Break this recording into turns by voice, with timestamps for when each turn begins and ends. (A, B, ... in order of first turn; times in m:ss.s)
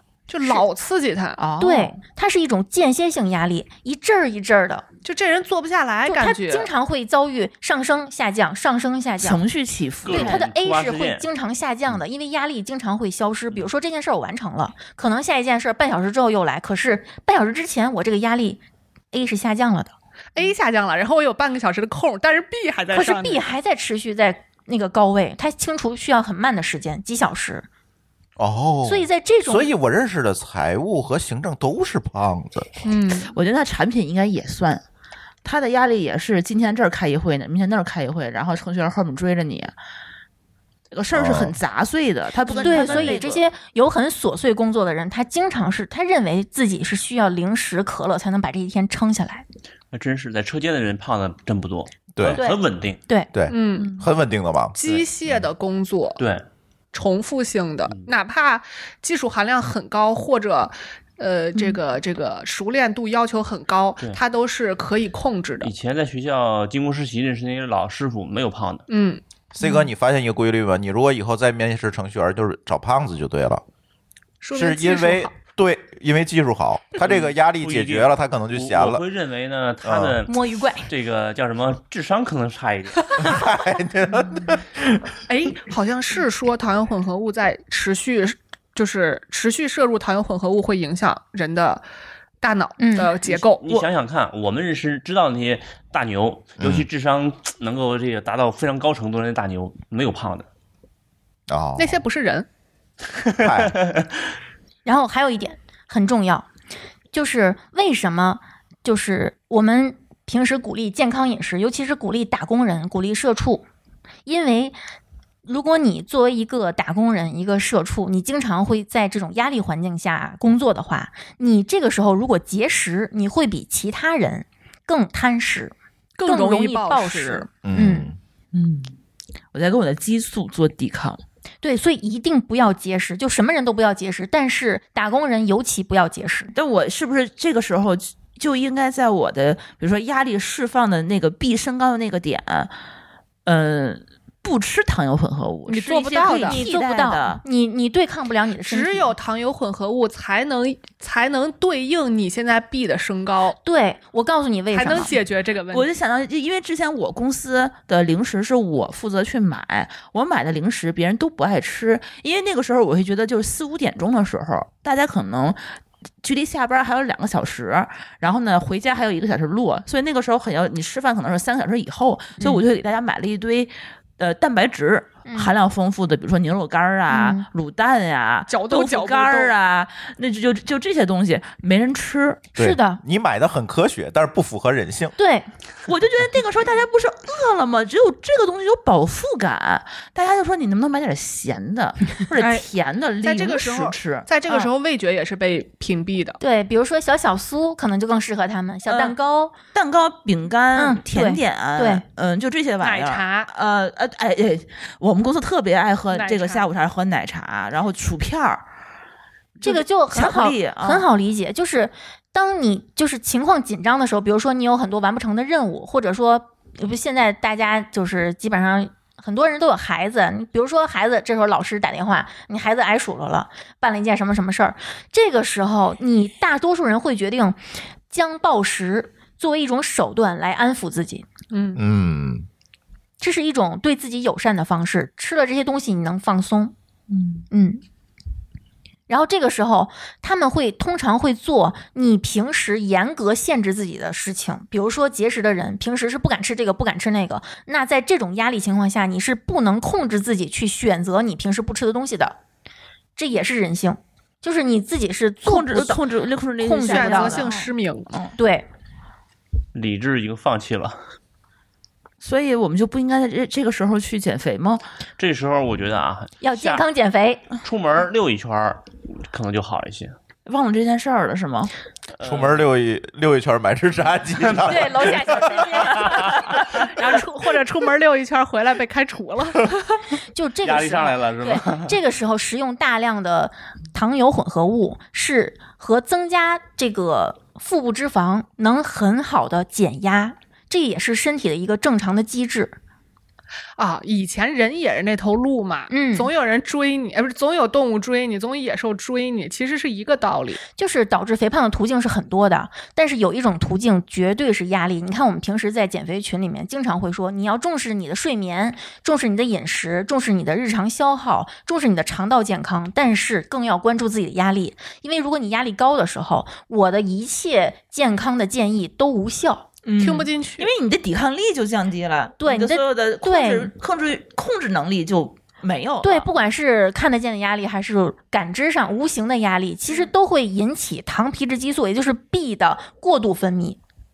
0:00.3-0:01.4 A
0:01.4-0:02.0 B
0:01.6-0:04.8 C
0:05.0-0:06.7 A
0:06.0-0:09.4 C
0:09.2-0:10.4 B
0:10.0-0:11.2 D
0:10.1-0:18.6 C
0:19.1-0:19.9 C
0:20.3-0:23.4 A
0:22.9-0:27.6 C
0:28.4-0:32.7 E
0:28.8-0:29.7 C
0:32.8-0:33.3 A
0:33.3-0:34.8 B
0:35.4-0:39.7 B
0:40.9-0:43.4 B
0:41.1-0:41.6 E
0:42.6-0:49.4 C
0:42.6-0:43.2 D
0:49.9-0:53.0 D
0:52.1-0:52.4 E
0:52.3-0:53.3 C
0:53.3-0:54.8 E
0:53.5-0:53.9 A
0:53.7-0:54.0 B
0:54.7-0:56.2 A
0:56.2-0:56.4 D
0:56.9-1:05.7 A
1:05.6-1:08.8 D
1:08.9-1:09.2 A
1:09.5-1:13.6 E
1:09.6-1:09.9 B
1:14.4-1:15.3 A
1:14.5-1:19.0 E
1:17.0-1:23.3 D
1:19.8-1:20.2 E
1:20.3-1:20.9 C
1:23.2-1:25.1 E
1:25.3-1:31.8 A
1:32.4-1:33.6 A
1:32.8-1:33.1 C
1:33.2-1:33.8 B
1:33.6-1:40.5 D
1:36.6-1:36.8 E
1:41.5-1:42.0 E
1:41.8-1:42.4 A
1:43.2-1:44.0 D
1:43.4-1:43.7 E
1:44.8-1:46.5 C
1:47.1-1:53.6 C
1:54.2-1:54.8 C
1:55.4-2:05.7 C
2:06.2-2:07.5 A
2:06.2-2:08.1 C
2:07.6-2:08.2 E
2:08.5-2:08.9 B
2:09.5-2:11.2 B
2:11.6-2:16.5 C
2:16.5-2:22.7 B
2:23.4-2:27.4 B
2:25.7-2:26.6 A
2:26.1-2:29.1 C
2:28.6-2:33.6 A
2:33.6-2:35.1 C
2:34.7-2:35.9 A
2:35.7-2:45.6 B
2:46.2-3:02.4 B
2:55.2-2:55.5 C
2:57.1-2:57.5 C
2:58.5-2:59.5 A
3:02.6-3:05.2 E
3:02.6-3:03.0 C
3:05.2-3:05.5 C
3:05.8-3:14.7 B
3:12.4-3:12.6 A
3:13.2-3:16.4 A
3:16.4-3:19.5 C
3:18.8-3:19.1 B
3:19.7-3:28.6 B
3:20.8-3:22.0 C
3:22.8-3:23.5 A
3:26.1-3:26.6 A
3:29.6-3:31.1 B
3:29.6-3:47.6 C
3:48.1-3:51.2 C
3:51.5-3:51.8 A
3:51.8-3:52.5 E
3:53.2-3:56.7 C
3:57.1-3:57.4 B
3:57.5-3:57.8 C
3:59.1-4:12.4 C
4:13.2-4:16.0 C
4:15.4-4:18.3 B
4:16.6-4:17.4 C
4:16.8-4:18.1 A
4:18.4-4:18.7 C
4:19.7-4:21.0 D
4:22.2-4:24.8 B
4:25.2-4:26.8 D
4:26.4-4:27.4 C
4:27.6-4:30.1 D
4:30.4-4:31.7 B
4:32.2-4:32.6 D
4:32.2-4:35.7 E
4:34.4-4:34.7 D
4:34.6-4:36.4 C
4:35.9-4:36.5 D
4:36.8-4:40.0 A
4:40.3-4:52.8 C
4:40.6-4:42.0 D
4:53.8-5:00.6 A
4:55.9-4:56.3 C
5:00.7-5:19.7 C
5:19.8-5:26.3 B
5:20.0-5:20.7 A
5:22.4-5:23.7 C
5:26.0-5:33.8 C